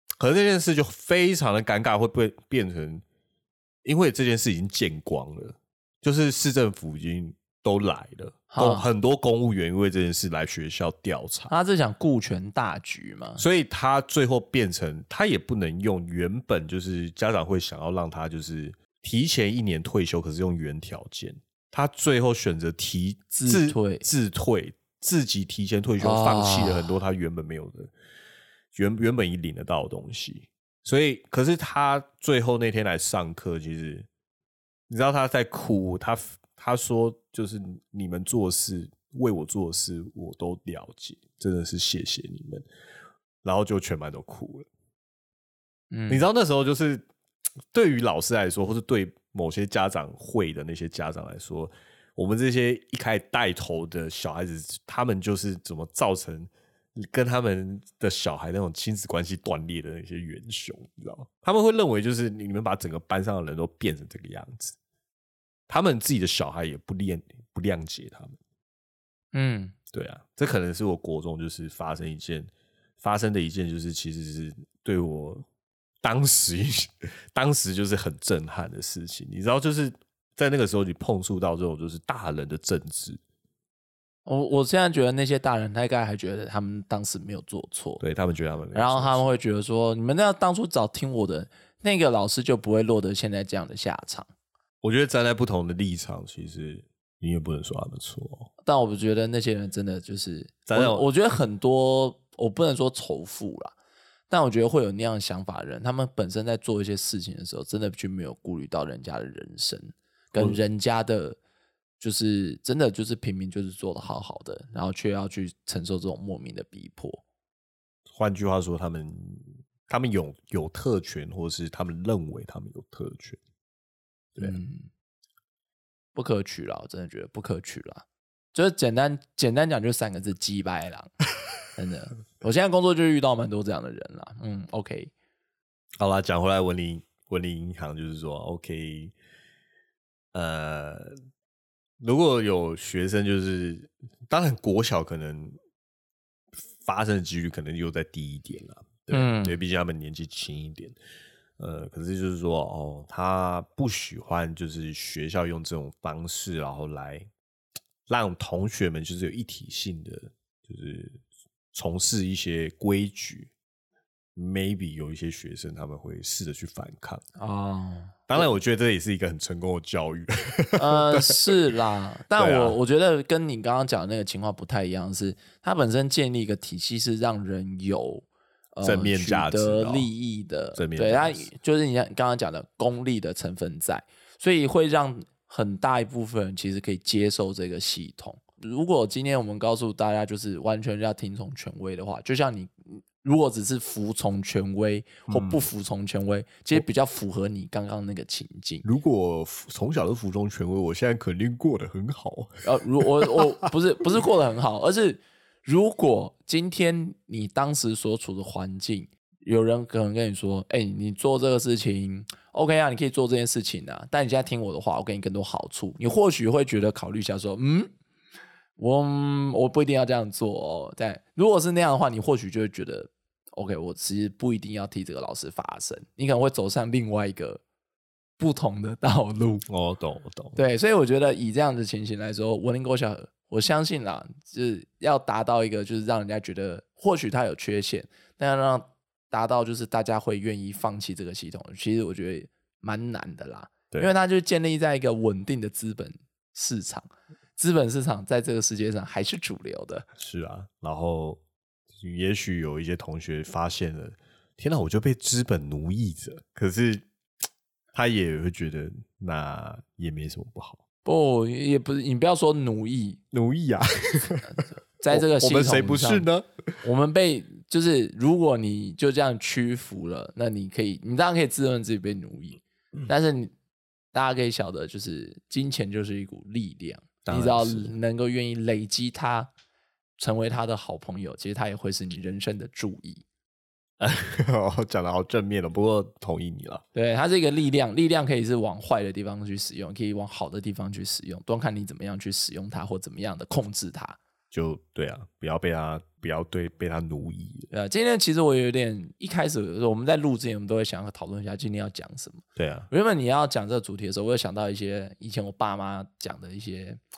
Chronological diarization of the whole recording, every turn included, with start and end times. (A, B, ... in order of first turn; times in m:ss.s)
0:00.2-0:03.0 A
0:03.8-0:11.5 A
0:08.5-0:08.9 B
0:11.5-0:13.4 B
0:13.4-0:27.9 A
0:23.3-0:24.0 B
0:26.0-0:26.9 B
0:28.7-0:34.1 A
0:34.9-0:42.6 A
0:43.4-0:44.7 A
0:45.9-0:46.3 B
0:46.1-0:47.0 A
0:47.7-1:04.8 A
1:05.7-1:08.4 A
1:09.3-1:09.7 B
1:09.9-1:15.4 A
1:16.0-1:23.2 A
1:24.2-1:28.0 B
1:28.0-1:29.3 A
1:28.7-1:34.3 B
1:34.8-1:38.5 A
1:38.6-1:43.7 B
1:40.7-1:41.1 A
1:44.3-1:51.4 B
1:52.0-1:57.2 B
1:58.1-2:03.4 A
2:04.4-2:04.9 B
2:06.1-2:11.1 B
2:11.7-2:15.1 B
2:16.0-2:19.1 A
2:20.3-2:21.1 A
2:22.0-2:25.5 A
2:26.8-2:31.0 A
2:29.1-2:29.6 B
2:31.6-2:37.3 A
2:38.1-2:41.2 A
2:41.7-2:43.5 A
2:44.4-2:47.2 A
2:47.4-2:48.5 B
2:48.3-2:51.4 A
2:50.8-3:18.8 B
2:52.3-2:52.8 A
2:58.8-3:00.1 A
3:00.8-3:01.5 A
3:15.3-3:15.7 A
3:18.8-3:23.7 A
3:22.6-3:37.9 B
3:38.8-3:47.6 B
3:48.4-3:49.6 B
3:49.7-3:50.6 A
3:50.6-4:10.0 B
4:10.2-4:11.4 A
4:11.9-4:17.0 A
4:17.9-4:20.8 A
4:21.0-4:23.2 B
4:23.3-4:26.7 A
4:24.4-4:26.3 B
4:26.8-4:33.5 B
4:34.1-4:39.5 B
4:37.2-4:37.9 A
4:40.2-4:43.2 B
4:44.0-4:46.8 A
4:46.9-4:54.2 B
4:54.5-4:57.7 A
4:57.7-5:07.0 B
5:02.6-5:02.9 A